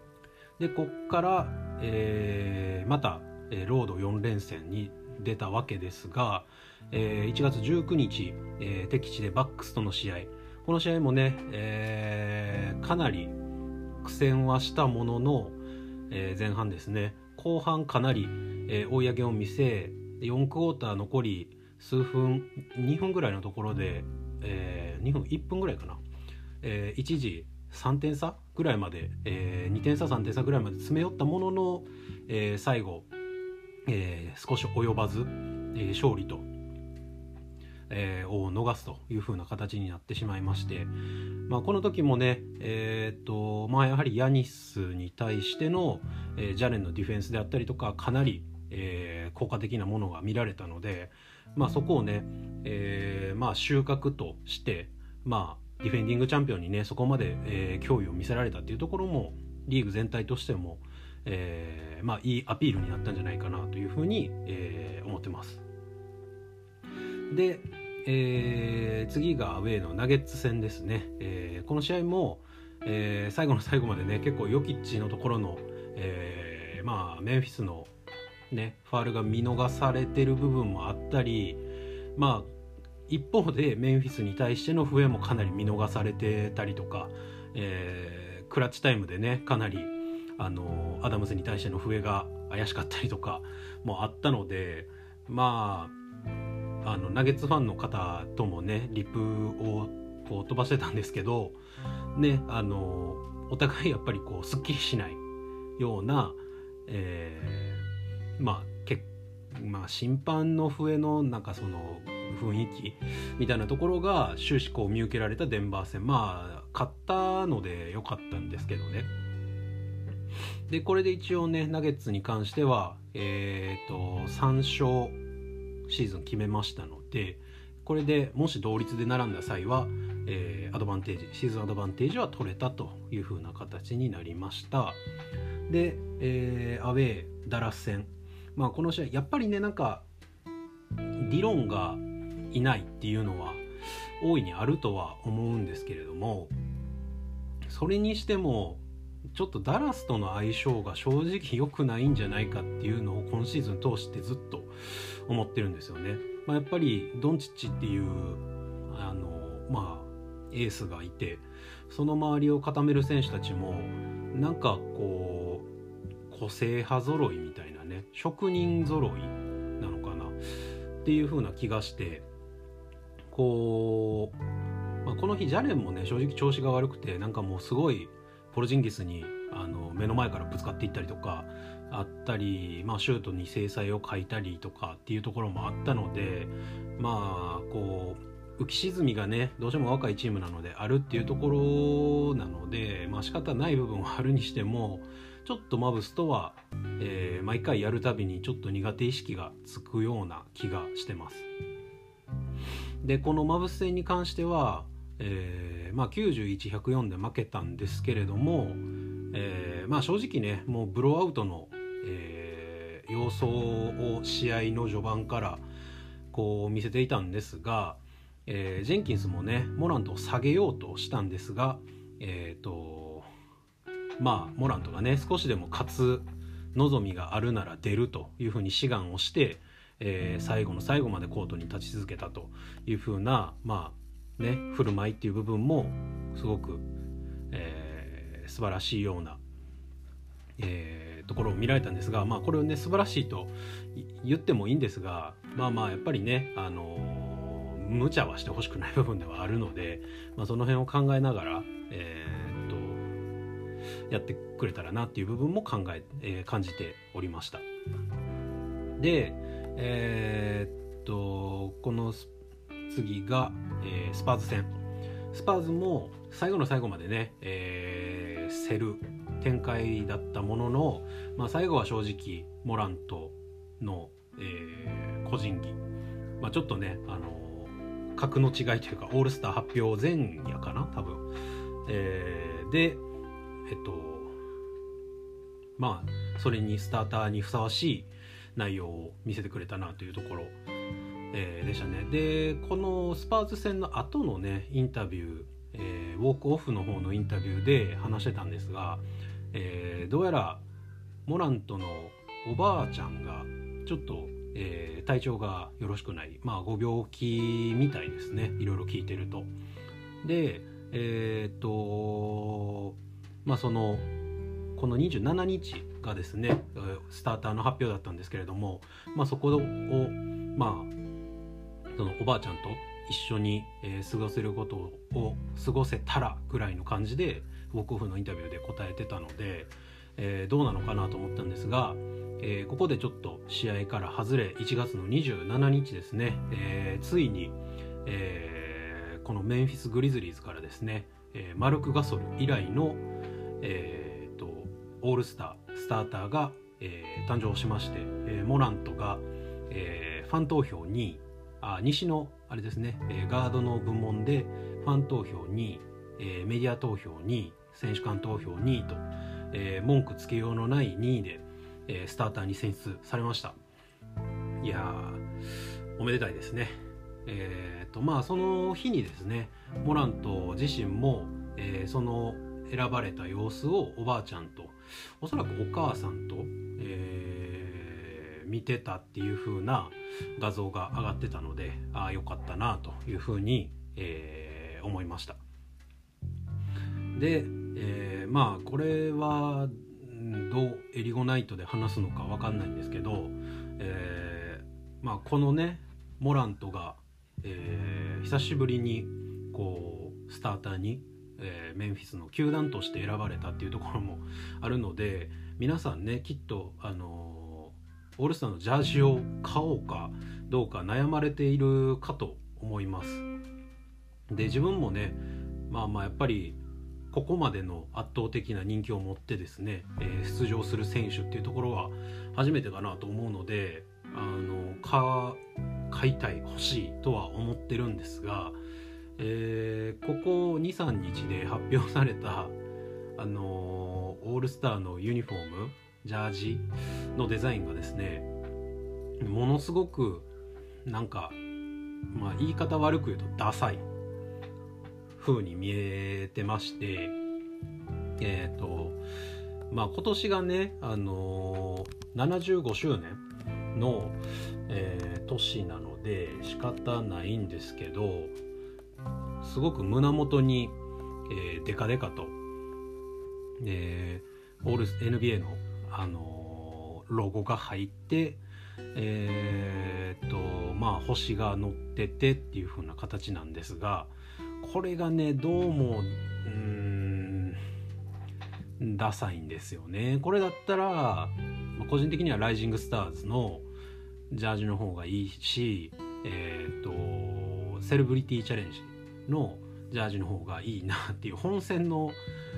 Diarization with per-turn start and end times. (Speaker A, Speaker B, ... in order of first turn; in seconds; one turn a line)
Speaker A: 0.6-13.3
Speaker A: 14.0-15.6
Speaker A: 16.1-26.0
Speaker A: 26.6-33.1
Speaker A: 33.9-36.5
Speaker A: 37.9-40.9
Speaker A: 41.5-65.7
Speaker A: 67.3-77.9
Speaker A: 78.5-81.6
Speaker A: 82.2-82.5
Speaker A: 83.1-96.0
Speaker A: 96.8-101.6
Speaker A: 102.2-105.2
Speaker A: 105.8-107.8
Speaker A: 108.4-119.1
Speaker A: 120.7-125.2
Speaker A: 125.9-135.0
Speaker A: 135.7-140.1
Speaker A: 141.2-143.6
Speaker A: 144.2-146.5
Speaker A: 147.7-165.7
Speaker A: 166.3-170.4
Speaker A: 171.0-172.3
Speaker A: 173.3-174.4
Speaker A: 175.0-201.5
Speaker A: 203.0-215.6
Speaker A: 216.3-223.3
Speaker A: 224.2-236.9
Speaker A: 237.5-239.4
Speaker A: 240.6-253.1
Speaker A: 254.1-257.6
Speaker A: 259.0-262.3
Speaker A: 262.9-264.7
Speaker A: 265.3-275.8
Speaker A: 276.4-281.3
Speaker A: 281.9-283.0
Speaker A: 283.7-284.4
Speaker A: 285.8-290.6
Speaker A: 291.3-300.6
Speaker A: 301.3-309.5
Speaker A: 310.2-314.1
Speaker A: 314.8-320.9
Speaker A: 322.0-343.1
Speaker A: 343.6-363.6
Speaker A: 364.6-365.2
Speaker A: 366.0-385.4
Speaker A: 387.1-413.3
Speaker A: 414.3-416.6
Speaker A: 417.1-428.6
Speaker A: 429.2-432.6
Speaker A: 433.2-438.3
Speaker A: 439.2-440.3
Speaker A: 440.9-441.4
Speaker A: 442.1-443.9
Speaker A: 445.2-447.2
Speaker A: 448.2-449.0
Speaker A: 449.7-453.2
Speaker A: 453.7-458.4
Speaker A: 459.4-460.8
Speaker A: 461.3-462.4
Speaker A: 463.6-468.4
Speaker A: 468.9-477.6
Speaker A: 478.8-483.7
Speaker A: 484.3-492.2